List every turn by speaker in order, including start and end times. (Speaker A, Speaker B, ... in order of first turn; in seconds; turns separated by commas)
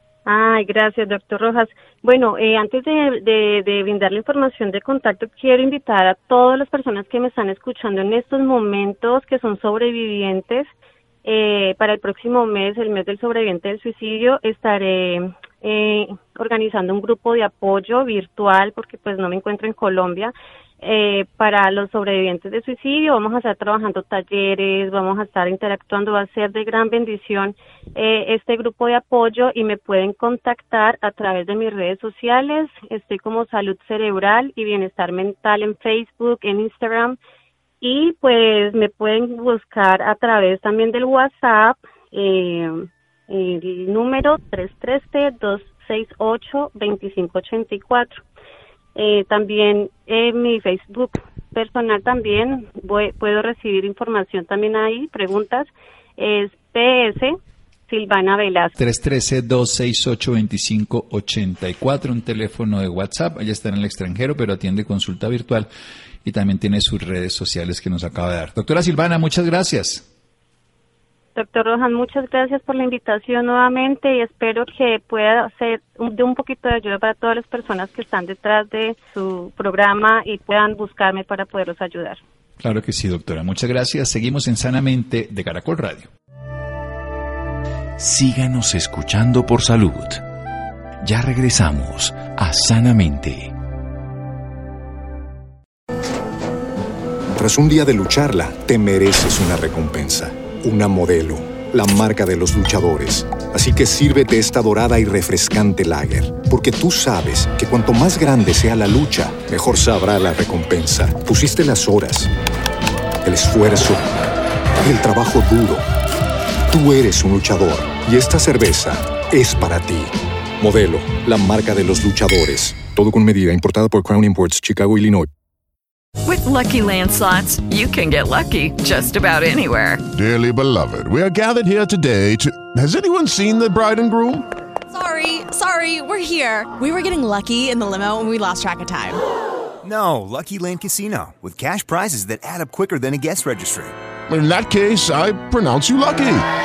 Speaker A: 0.2-10.7, Speaker A: 11.2-37.2, Speaker A: 37.8-48.2, Speaker A: 48.9-57.4, Speaker A: 57.9-58.7, Speaker B: 58.8-65.7, Speaker B: 66.2-70.1, Speaker A: 71.3-82.2, Speaker B: 82.6-86.1, Speaker C: 88.0-90.2, Speaker C: 91.0-93.5, Speaker D: 97.3-112.3, Speaker D: 113.2-114.1, Speaker D: 114.8-115.8, Speaker D: 116.7-125.3, Speaker E: 126.2-130.0, Speaker F: 130.1-134.5, Speaker G: 134.9-139.2, Speaker H: 139.8-143.9, Speaker F: 144.3-146.4